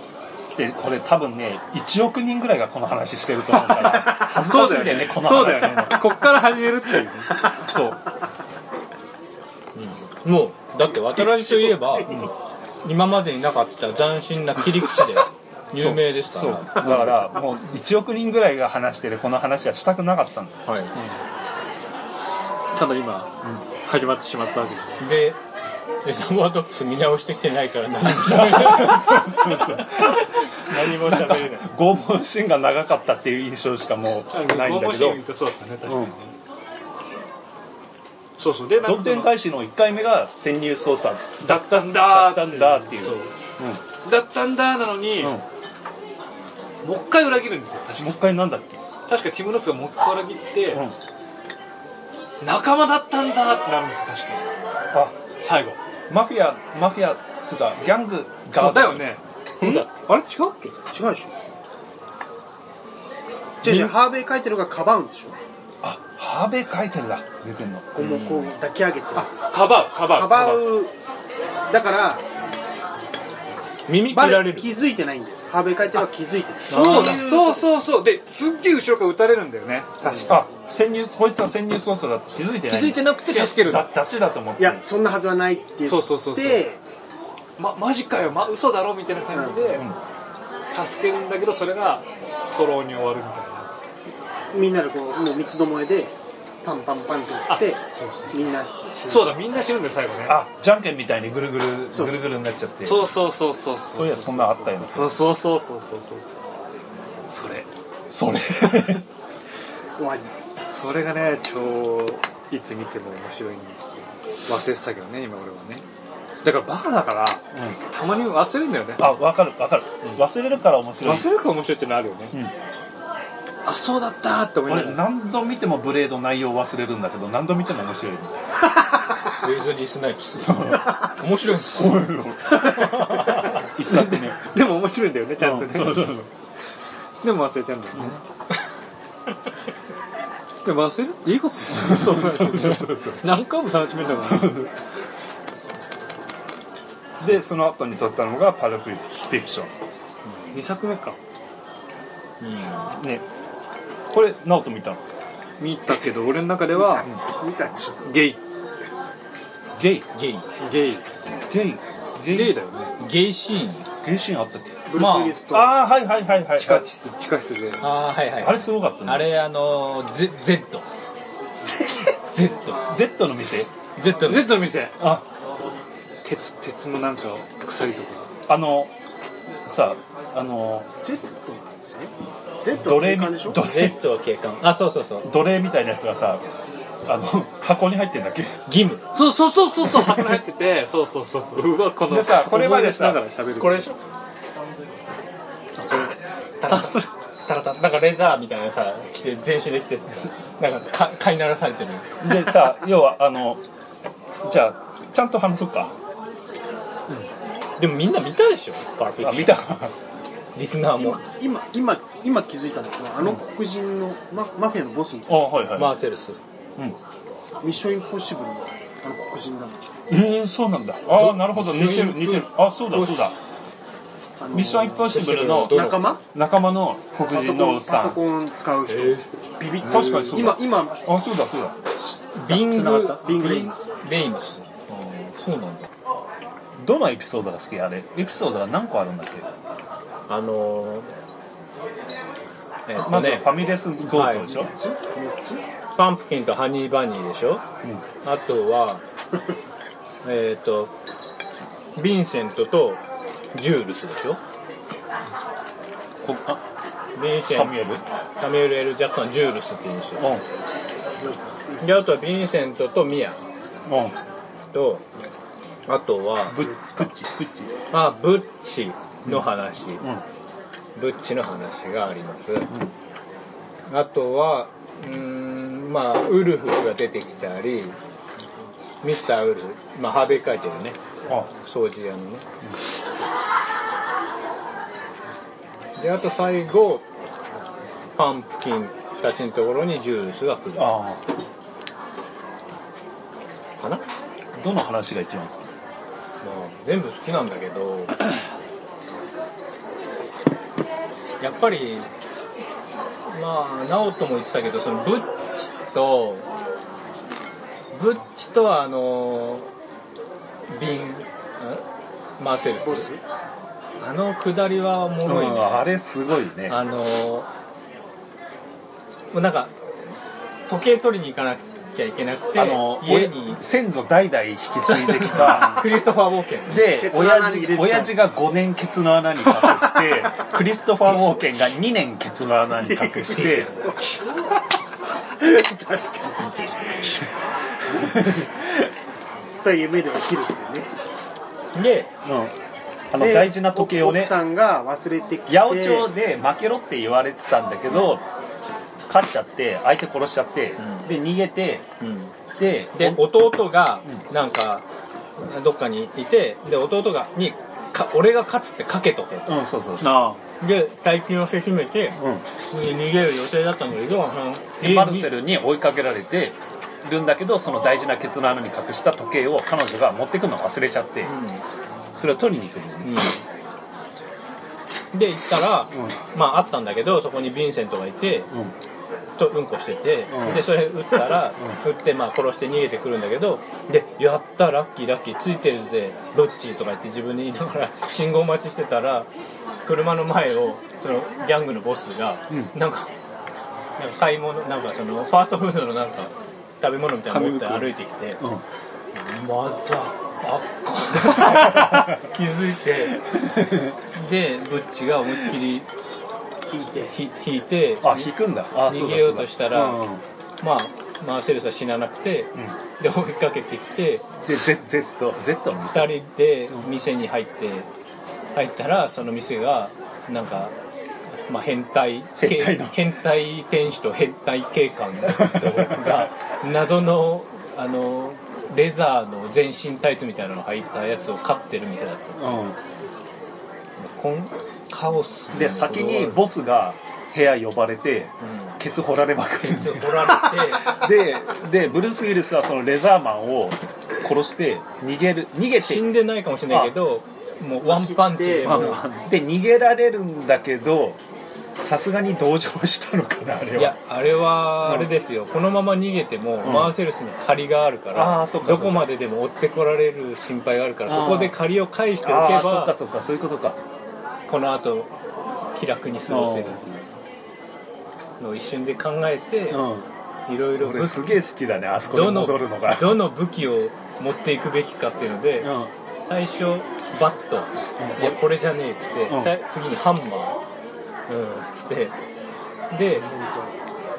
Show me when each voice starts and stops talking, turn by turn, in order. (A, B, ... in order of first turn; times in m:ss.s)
0:00.5-0:06.1 A
0:03.5-0:07.6 B
0:07.5-0:08.0 A
0:09.7-0:12.2 C
0:12.8-0:17.2 C
0:15.7-0:20.6 A
0:20.6-0:20.9 C
0:22.7-0:25.0 B
0:25.0-0:25.4 C
0:26.0-0:31.7 C
0:28.0-0:35.2 A
0:34.3-0:36.3 B
0:35.8-0:36.1 A
0:38.4-0:39.3 B
0:38.8-0:43.8 A
0:41.4-0:43.3 B
0:44.0-0:45.4 B
0:45.2-0:45.4 A
0:46.8-0:48.2 B
0:48.0-0:48.8 A
0:49.1-0:50.8 B
0:50.7-0:51.0 A
0:52.4-0:54.5 B
0:54.9-0:55.2 A
0:55.4-0:55.8 B
0:56.1-0:59.1 A
0:58.5-0:59.2 B
0:59.6-0:59.8 D
0:59.6-0:59.9 C
0:59.9-1:00.7 B
1:00.9-1:01.3 D
1:03.6-1:05.4 D
1:03.6-1:03.9 A
1:05.8-1:08.0 A
1:07.9-1:09.3 D
1:08.0-1:08.5 C
1:09.1-1:10.7 B
1:10.1-1:10.9 D
1:11.7-1:12.2 D
1:13.9-1:14.7 C
1:14.1-1:17.7 D
1:16.7-1:17.3 A
1:16.7-1:20.3 B
1:20.0-1:20.3 D
1:20.3-1:24.8 A
1:22.7-1:23.9 B
1:24.6-1:26.8 D
1:25.8-1:26.7 B
1:27.6-1:29.8 B
1:29.3-1:29.8 D
1:30.7-1:33.7 B
1:34.5-1:39.4 D
1:37.5-1:40.4 B
1:40.2-1:43.1 A
1:41.9-1:42.3 D
1:42.8-1:46.2 B
1:43.9-1:45.2 A
1:47.3-1:47.7 B
1:48.1-1:49.0 A
1:50.0-1:50.3 D
1:50.7-1:55.8 B
1:56.4-1:59.2 B
1:57.5-1:57.8 A
1:59.0-2:01.3 A
2:01.0-2:02.4 B
2:03.6-2:05.0 B
2:04.7-2:08.4 A
2:09.4-2:11.9 C
2:10.4-2:11.0 A
2:11.6-2:14.4 A
2:13.8-2:16.2 B
2:15.4-2:16.3 A
2:17.2-2:18.2 B
2:20.6-2:24.6 B
2:21.7-2:23.4 A
2:24.2-2:24.7 A
2:27.2-2:29.7 A
2:30.2-2:30.6 C
2:30.5-2:31.2 B
2:32.4-2:33.0 C
2:33.0-2:33.2 A
2:34.1-2:35.0 A
2:35.6-2:37.1 B
2:36.9-2:38.2 D
2:38.0-2:38.4 B
2:39.8-2:40.1 A
2:40.1-2:40.5 C
2:40.6-2:41.0 B
2:41.5-2:42.6 A
2:42.3-2:42.9 B
2:43.0-2:43.9 C
2:44.0-2:46.8 A
2:44.9-2:45.8 D
2:46.6-2:47.8 B
2:47.8-2:50.8 C
2:48.4-2:49.3 A
2:52.2-2:52.8 C
2:52.8-2:53.7 A
2:54.0-2:54.6 C
2:54.2-2:55.0 B
2:55.0-2:55.2 A
2:56.2-2:58.3 B
2:58.5-2:58.9 A
2:59.6-3:00.9 A
3:01.0-3:03.6 D
3:02.7-3:04.0 A
3:03.6-3:05.3 C
3:05.2-3:06.4 A
3:07.0-3:08.6 A
3:08.7-3:09.1 C
3:09.1-3:13.9 B
3:12.1-3:13.2 A
3:13.6-3:13.9 C
3:15.8-3:16.1 B
3:16.6-3:22.3 C
3:16.7-3:17.1 B
3:22.2-3:23.6 A
3:24.4-3:25.9 A
3:27.8-3:29.6 C
3:29.2-3:29.9 A
3:30.6-3:31.2 C
3:31.0-3:35.4 D
3:35.3-3:35.9 A
3:35.7-3:36.4 C
3:37.6-3:39.8 D
3:40.1-3:43.4 A
3:41.1-3:43.2 C
3:44.4-3:46.2 D
3:44.5-3:48.2 A
3:45.1-3:46.1 C
3:47.3-3:51.0 D
3:48.9-3:49.2 C
3:49.8-3:51.8 A
3:49.9-3:50.3 C
3:52.3-3:55.9 C
3:52.5-3:53.2 A
3:53.1-3:53.8 D
3:56.8-3:59.5 A
4:00.3-4:01.1 C
4:02.9-4:03.6 C
4:03.0-4:04.7 A
4:04.1-4:04.5 C
4:04.4-4:05.6 D
4:06.0-4:07.6 C
4:08.2-4:09.0 C
4:10.2-4:10.9 C
4:12.0-4:13.0 C
4:13.5-4:14.4 C
4:16.2-4:16.6 A
4:17.1-4:17.8 C
4:17.4-4:18.0 A
4:18.4-4:20.2 C
4:20.2-4:20.4 A
4:21.2-4:22.0 D
4:21.8-4:23.4 C
4:23.9-4:24.2 A
4:24.7-4:25.0 C
4:25.9-4:26.6 C
4:26.5-4:27.7 A
4:27.9-4:30.0 C
4:30.0-4:30.2 A
4:31.0-4:32.7 C
4:33.9-4:38.0 C
4:39.0-4:41.0 C
4:41.6-4:42.4 C
4:46.0-4:47.0 C
4:48.2-4:50.9 C
4:50.7-4:51.2 A
4:54.5-4:55.7 A
4:56.4-4:58.2 C
5:01.4-5:02.1 C
5:03.3-5:06.5 C
5:07.9-5:09.7 C
5:10.7-5:11.8 C
5:12.4-5:13.1 C
5:12.8-5:13.2 D
5:14.0-5:15.9 C
5:15.2-5:16.8 A
5:16.7-5:17.5 C
5:19.3-5:19.7 C
5:20.7-5:23.6 C
5:22.5-5:25.8 A
5:24.8-5:26.8 C
5:26.6-5:33.8 A
5:26.8-5:28.3 D
5:32.8-5:34.4 D
5:35.4-5:37.3 D
5:37.9-5:38.4 D
5:38.0-5:38.4 A
5:39.6-5:40.9 D
5:41.7-5:42.1 C
5:42.2-5:42.5 A
5:43.1-5:44.3 A
5:43.2-5:46.1 D
5:45.5-5:48.2 A
5:49.1-5:51.8 A
5:50.8-5:51.1 C
5:52.0-5:52.3 C
5:52.6-5:53.2 A
5:52.9-5:54.8 C
5:55.4-5:59.5 C
5:59.4-6:00.2 A
6:00.0-6:00.4 B
6:00.6-6:05.3 C
6:02.2-6:02.4 A
6:04.8-6:11.3 A
6:11.2-6:11.6 C
6:12.1-6:13.3 A
6:13.0-6:13.4 C
6:15.1-6:18.5 C
6:19.4-6:29.3 C
6:20.3-6:21.8 A
6:29.8-6:33.1 C
6:34.0-6:38.4 C
6:37.3-6:37.9 B
6:39.1-6:43.2 C
6:41.7-6:42.0 A
6:43.2-6:43.9 A
6:44.1-6:45.9 C
6:46.7-6:47.1 D
6:47.1-6:48.3 C
6:48.0-6:50.2 A
6:48.8-6:50.0 C
6:50.6-6:54.3 C
6:54.4-6:56.2 A
6:55.9-6:57.9 C
6:58.5-7:00.7 C
7:01.4-7:12.6 C
7:02.4-7:03.0 A
7:05.4-7:06.3 A
7:12.4-7:12.8 A
7:14.0-7:16.4 C
7:15.5-7:26.1 A
7:18.4-7:18.8 C
7:19.6-7:21.0 C
7:25.8-7:29.0 C
7:26.7-7:26.9 A
7:27.8-7:28.9 D
7:28.6-7:31.2 A
7:31.8-7:34.0 A
7:33.8-7:42.9 C
7:34.8-7:35.1 A
7:36.6-7:36.9 A
7:38.1-7:39.1 A
7:41.1-7:41.6 A
7:42.2-7:43.8 A
7:44.5-7:45.1 C
7:45.7-7:47.1 C
7:46.3-7:46.8 A
7:48.4-7:49.8 C
7:49.7-7:50.1 A
7:50.5-7:51.4 C
7:50.8-7:53.2 A
7:52.1-8:00.6 C
7:55.6-7:55.9 A
7:58.0-7:58.4 A
7:59.3-7:59.5 A
8:01.3-8:02.1 C
8:02.9-8:03.3 C
8:03.2-8:03.7 D